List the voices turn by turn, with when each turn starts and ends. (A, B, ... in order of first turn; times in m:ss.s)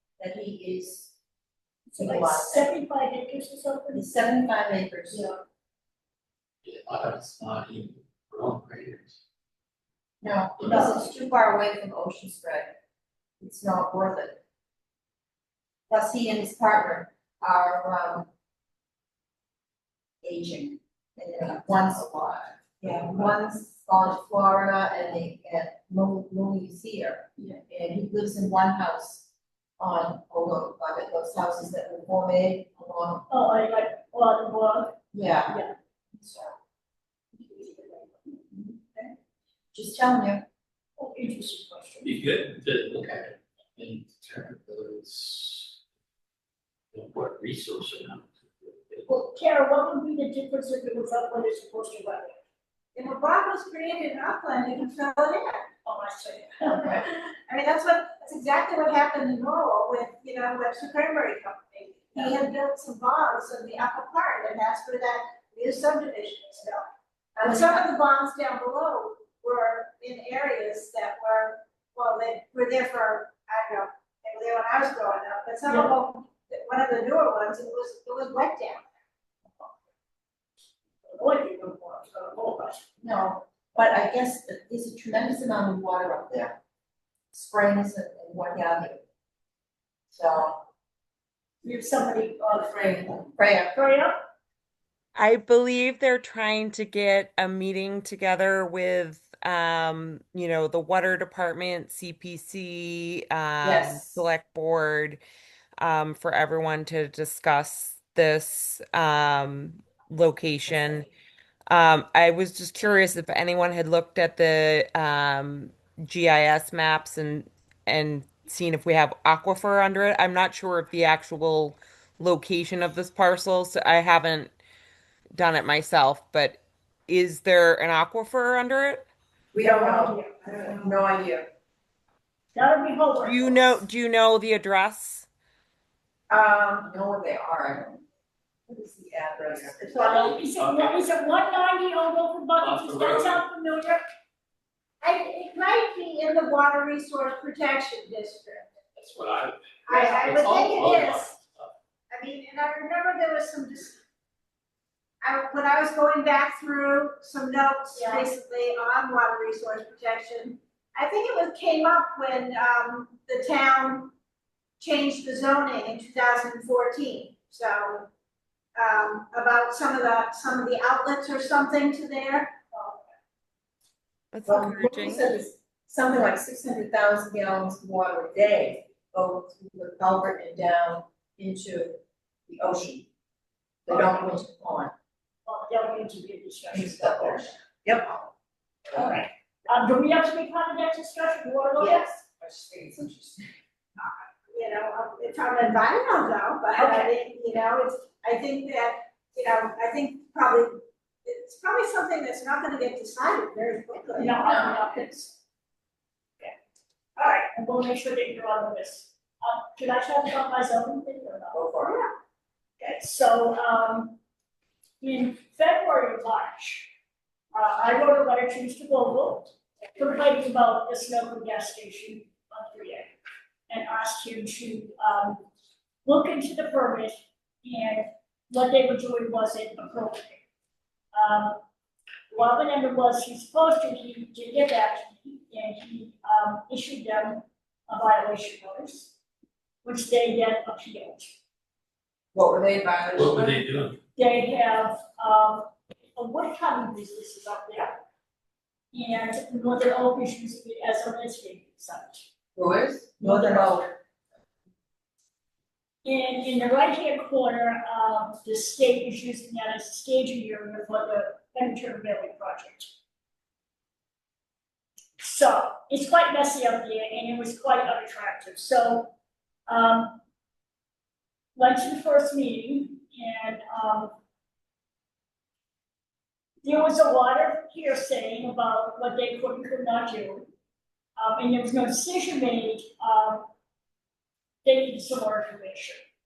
0:00.2-0:01.1 A
0:01.9-0:04.1 B
0:02.0-0:02.7 A
0:03.9-0:05.3 A
0:05.1-0:05.4 B
0:06.6-0:09.2 C
0:10.2-0:12.7 A
0:10.7-0:11.0 B
0:13.4-0:14.4 A
0:15.9-0:18.3 A
0:20.2-0:29.3 A
0:29.8-0:33.3 A
0:33.3-0:35.8 B
0:35.1-0:35.6 A
0:36.2-0:36.6 A
0:37.4-0:38.1 B
0:38.5-0:39.1 A
0:39.7-0:40.4 A
0:41.0-0:42.1 B
0:42.0-0:45.8 C
0:46.9-0:49.1 C
0:49.1-0:52.4 B
0:53.0-0:55.7 D
0:55.8-0:57.0 B
0:56.7-0:57.0 A
0:56.8-1:06.9 D
1:07.4-1:07.9 A
1:07.4-1:18.9 D
1:15.7-1:16.0 B
1:21.1-1:22.9 B
1:23.0-1:26.6 A
1:27.3-1:29.0 A
1:30.1-1:30.6 A
1:31.6-1:33.0 B
1:32.6-1:33.8 A
1:33.7-1:34.2 B
1:35.2-1:45.2 E
1:43.6-1:44.2 A
1:45.8-1:51.1 E
1:51.7-2:04.6 E
2:05.4-2:09.1 E
2:09.5-2:11.5 A
2:09.6-2:10.8 B
2:12.5-2:13.6 B
2:13.2-2:15.3 E
2:16.3-2:18.0 A
2:18.7-2:20.4 A
2:20.0-2:24.0 B
2:20.6-2:21.1 C
2:22.6-2:23.4 C
2:25.0-2:28.7 D
2:29.0-2:31.7 C
2:29.9-2:31.4 D
2:32.1-2:34.0 D
2:35.2-2:44.1 D
2:37.9-2:38.3 B
2:44.8-2:48.1 D
2:48.8-2:52.6 D
2:52.7-2:53.1 B
2:54.3-2:55.3 E
2:54.5-3:03.1 A
3:03.9-3:04.9 A
3:05.4-3:07.5 B
3:06.7-3:08.3 A
3:08.9-3:12.1 B
3:11.8-3:13.5 A
3:14.5-3:24.4 D
3:16.8-3:17.1 B
3:24.2-3:25.4 B
3:24.4-3:24.8 A
3:27.2-3:31.6 B
3:31.5-3:32.0 A
3:31.8-3:32.1 D
3:32.8-3:34.2 B
3:35.0-3:36.9 B
3:37.5-3:43.1 B
3:43.7-3:45.5 B
3:46.0-3:50.4 B
3:51.1-3:51.6 B
3:52.3-3:59.1 B
3:59.8-4:01.4 B
4:02.3-4:03.7 A
4:03.1-4:04.0 C
4:04.2-4:08.0 B
4:08.9-4:12.2 B
4:12.6-4:13.9 A
4:13.2-4:13.9 B
4:16.0-4:22.9 B
4:25.2-4:29.1 B
4:29.7-4:30.2 B
4:31.6-4:34.2 B
4:36.6-4:40.5 B
4:41.2-4:43.5 B
4:44.6-4:46.0 B